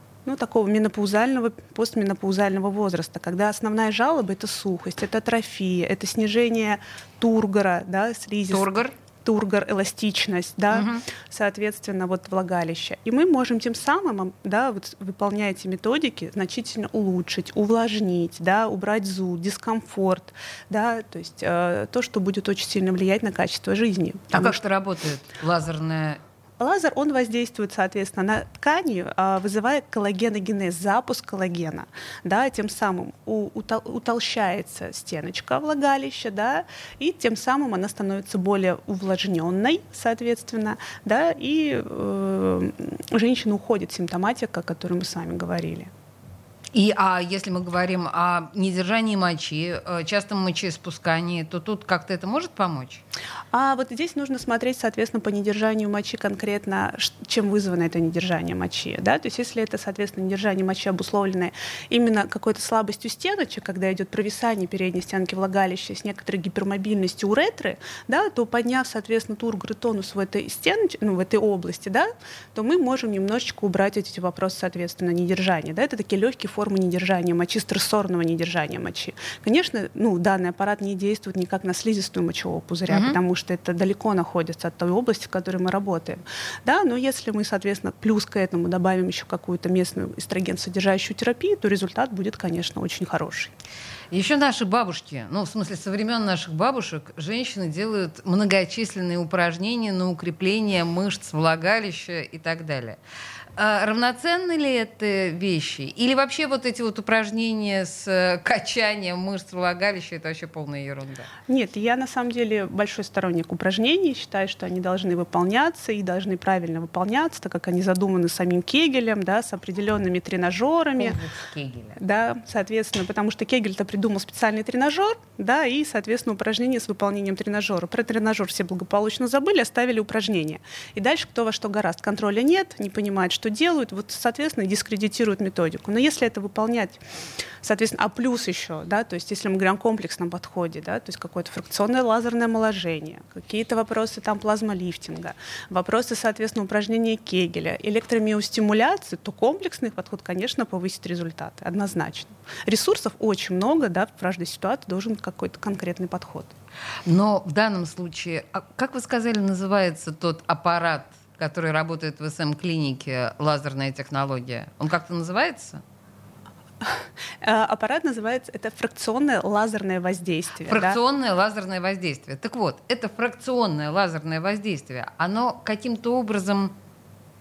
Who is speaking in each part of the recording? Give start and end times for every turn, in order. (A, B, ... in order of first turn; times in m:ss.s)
0:00.2-0:24.6 A
0:08.5-0:08.9 B
0:10.7-0:11.1 B
0:24.3-0:26.2 B
0:26.6-0:45.9 A
0:46.7-0:53.0 B
0:53.5-1:33.5 A
1:22.9-1:23.2 B
1:34.1-1:43.0 B
1:43.6-1:51.3 B
1:51.5-2:01.2 A
2:01.0-2:02.0 B
2:02.0-2:17.0 A
2:17.6-2:36.5 A
2:37.1-2:45.8 B
2:46.8-2:51.0 A
2:50.7-2:56.7 B